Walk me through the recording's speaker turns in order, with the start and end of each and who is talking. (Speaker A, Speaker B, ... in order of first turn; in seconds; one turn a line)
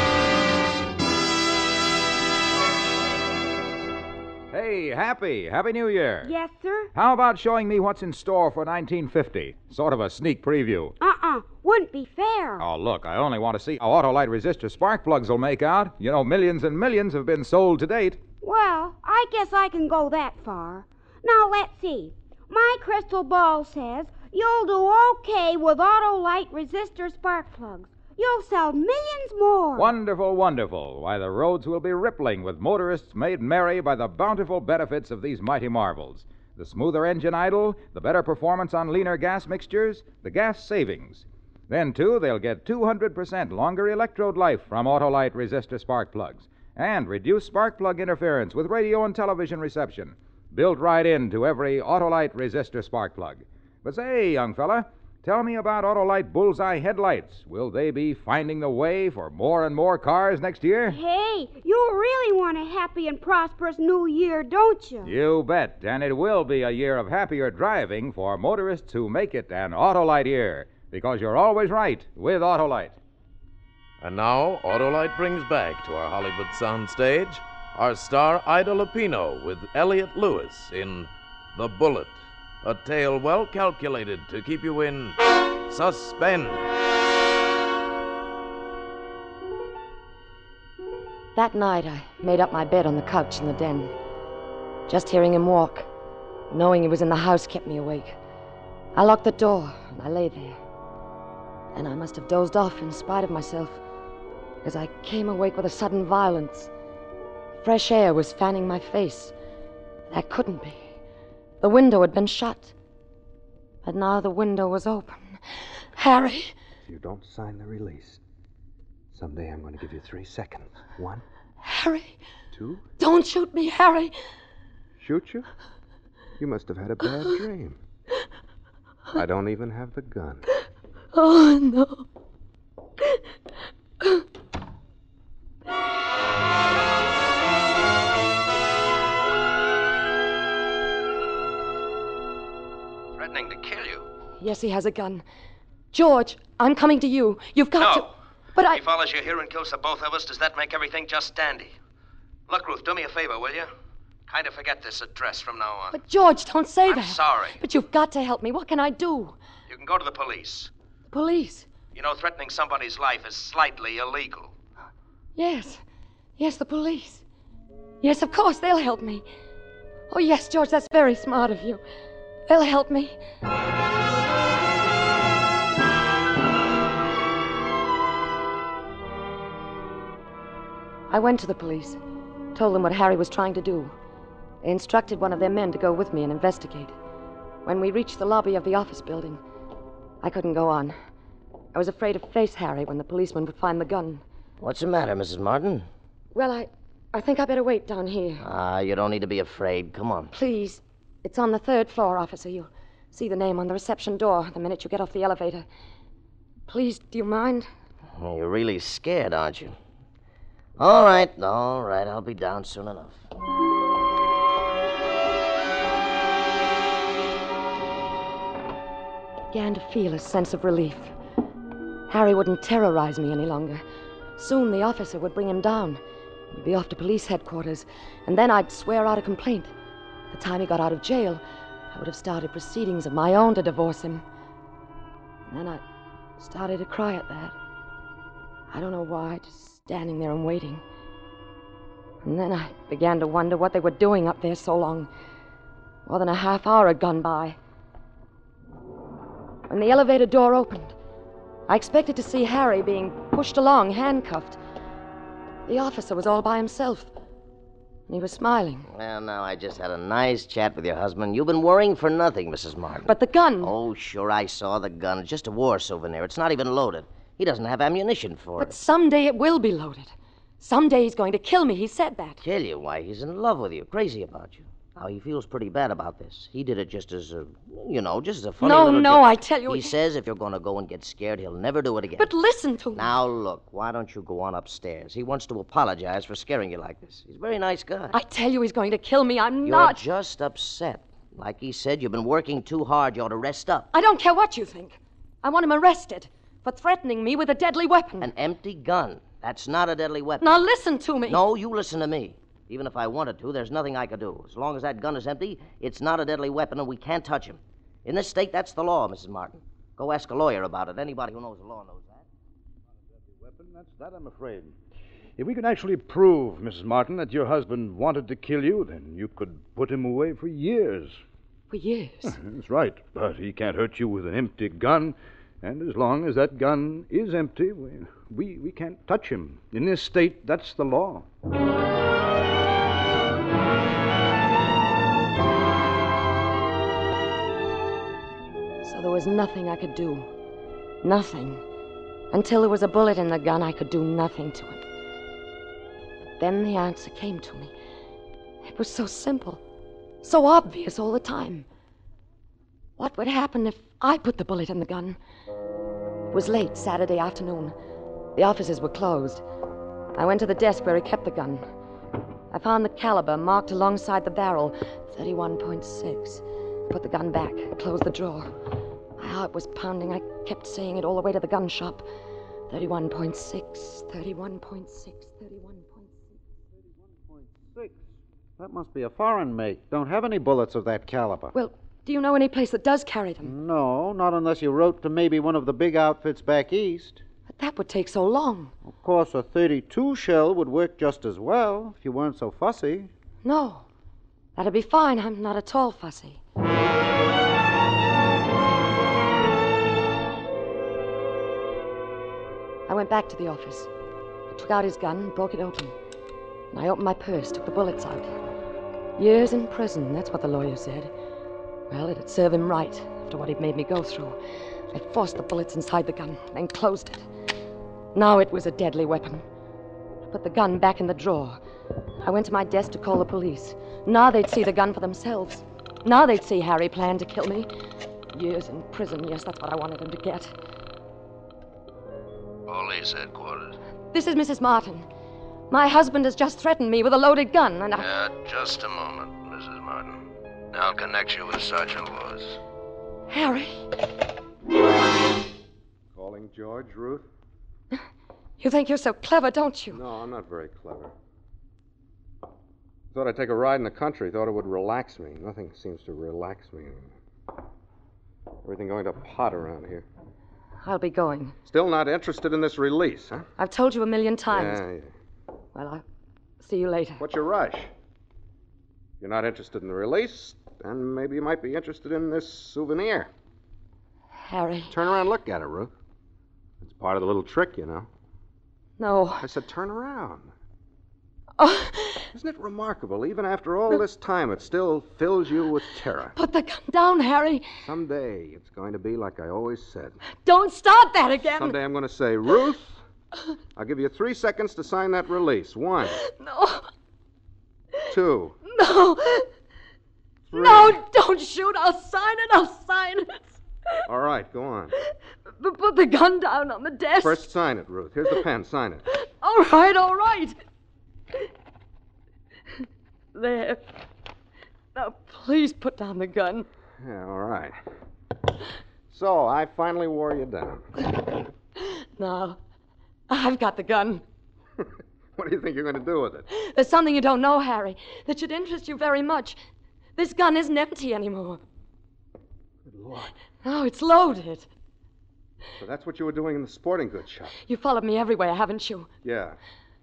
Speaker A: 4.5-6.3
Speaker B: 6.2-6.9
Speaker A: 6.9-10.9
Speaker B: 11.0-12.6
Speaker A: 12.6-18.2
Speaker B: 18.4-29.9
Speaker A: 29.8-61.0
Speaker B: 60.9-65.1
Speaker A: 65.0-73.0
Speaker C: 74.0-86.7
Speaker D: 91.3-93.9
Speaker D: 94.9-95.9
Speaker D: 96.5-98.2
Speaker D: 98.9-100.6
Speaker D: 101.7-103.8
Speaker D: 104.6-106.7
Speaker D: 107.6-109.3
Speaker D: 110.1-110.8
Speaker D: 111.6-112.7
Speaker D: 113.8-115.4
Speaker D: 115.9-116.5
Speaker E: 116.8-118.2
Speaker E: 119.1-121.2
Speaker D: 121.6-122.2
Speaker E: 122.5-122.8
Speaker D: 123.0-124.1
Speaker E: 125.0-125.5
Speaker E: 126.4-127.8
Speaker E: 129.1-130.4
Speaker D: 131.1-132.0
Speaker F: 143.2-144.0
Speaker D: 144.4-145.2
Speaker D: 145.9-148.8
Speaker F: 147.8-151.8
Speaker F: 152.5-153.7
Speaker F: 154.3-156.0
Speaker D: 155.9-159.3
Speaker F: 156.8-157.6
Speaker F: 159.7-160.7
Speaker D: 161.1-161.7
Speaker F: 161.9-164.5
Speaker D: 165.3-165.8
Speaker D: 166.4-167.2
Speaker D: 168.0-169.2
Speaker D: 170.1-171.8
Speaker D: 172.5-173.2
Speaker D: 181.1-182.0
Speaker D: 182.5-183.9
Speaker D: 184.6-186.9
Speaker D: 187.6-189.4
Speaker D: 190.2-190.9
Speaker D: 191.7-194.2
Speaker G: 194.6-195.9
Speaker D: 196.3-198.5
Speaker G: 198.4-200.3
Speaker D: 200.3-205.7
Speaker D: 206.7-207.7
Speaker G: 208.2-209.7
Speaker G: 210.8-213.2
Speaker D: 219.5-221.1
Speaker D: 222.1-223.8
Speaker D: 224.4-226.0
Speaker D: 226.5-229.7
Speaker D: 230.3-231.4
Speaker D: 231.9-234.2
Speaker D: 235.5-235.8
Speaker D: 236.4-237.5
Speaker D: 238.7-240.8
Speaker D: 242.2-245.1
Speaker D: 246.1-247.6
Speaker D: 249.7-250.9
Speaker D: 251.7-254.6
Speaker D: 255.7-257.1
Speaker D: 258.1-258.9
Speaker G: 258.9-268.8
Speaker D: 263.0-263.7
Speaker D: 268.6-272.4
Speaker G: 272.4-282.3
Speaker D: 278.6-279.9
Speaker D: 282.2-283.1
Speaker G: 282.9-288.2
Speaker D: 288.1-290.1
Speaker G: 289.6-293.9
Speaker D: 293.9-298.3
Speaker G: 298.2-300.6
Speaker D: 300.4-301.4
Speaker G: 301.3-312.2
Speaker H: 313.3-314.8
Speaker H: 315.4-321.2
Speaker D: 321.7-322.4
Speaker H: 322.2-331.3
Speaker D: 338.8-340.3
Speaker D: 341.0-341.6
Speaker D: 342.3-344.8
Speaker D: 346.4-347.7
Speaker D: 348.6-349.6
Speaker D: 350.2-351.6
Speaker D: 353.0-355.2
Speaker D: 356.3-357.7
Speaker D: 358.4-359.4
Speaker D: 360.1-361.6
Speaker D: 362.5-368.5
Speaker D: 369.2-372.0
Speaker D: 372.7-376.1
Speaker I: 377.3-378.0
Speaker I: 378.6-381.5
Speaker D: 381.5-383.5
Speaker I: 383.4-387.2
Speaker D: 387.5-388.7
Speaker I: 388.9-393.1
Speaker D: 393.4-393.9
Speaker D: 394.6-396.4
Speaker D: 402.9-403.9
Speaker D: 404.5-405.9
Speaker D: 406.7-408.3
Speaker D: 409.2-411.1
Speaker D: 411.9-414.4
Speaker D: 414.9-417.2
Speaker D: 418.1-419.4
Speaker D: 420.3-421.6
Speaker D: 422.2-427.7
Speaker D: 428.3-430.5
Speaker F: 432.7-433.8
Speaker D: 434.1-435.1
Speaker D: 435.7-438.1
Speaker F: 438.0-442.6
Speaker D: 443.3-443.8
Speaker E: 446.1-447.2
Speaker D: 448.6-450.0
Speaker E: 449.9-451.1
Speaker E: 453.1-457.1
Speaker E: 458.6-460.1
Speaker D: 460.8-461.6
Speaker E: 461.7-463.4
Speaker D: 463.6-464.8
Speaker E: 464.5-465.1
Speaker D: 465.7-466.0
Speaker D: 466.6-467.2
Speaker E: 467.2-467.9
Speaker E: 469.2-473.3
Speaker D: 474.4-474.9
Speaker E: 474.9-475.9
Speaker E: 476.8-478.1
Speaker D: 479.0-479.4
Speaker E: 479.4-480.5
Speaker D: 481.6-482.3
Speaker E: 482.3-486.3
Speaker D: 486.3-487.6
Speaker E: 487.8-490.2
Speaker D: 490.4-491.8
Speaker E: 491.5-493.0
Speaker E: 493.8-496.2
Speaker D: 496.1-496.9
Speaker E: 498.1-498.6
Speaker D: 498.7-499.5
Speaker E: 500.5-501.0
Speaker D: 500.5-503.6
Speaker E: 504.1-504.9
Speaker D: 505.6-507.5
Speaker E: 507.2-509.0
Speaker D: 509.2-510.6
Speaker D: 513.3-513.8
Speaker D: 514.9-516.7
Speaker E: 517.0-517.7
Speaker E: 519.1-520.9
Speaker D: 521.8-522.6
Speaker D: 523.3-524.2
Speaker E: 525.4-526.5
Speaker D: 526.5-529.6
Speaker D: 530.2-531.6
Speaker E: 532.8-533.3
Speaker D: 533.6-534.7
Speaker E: 535.8-537.5
Speaker D: 537.7-539.1
Speaker E: 539.2-539.6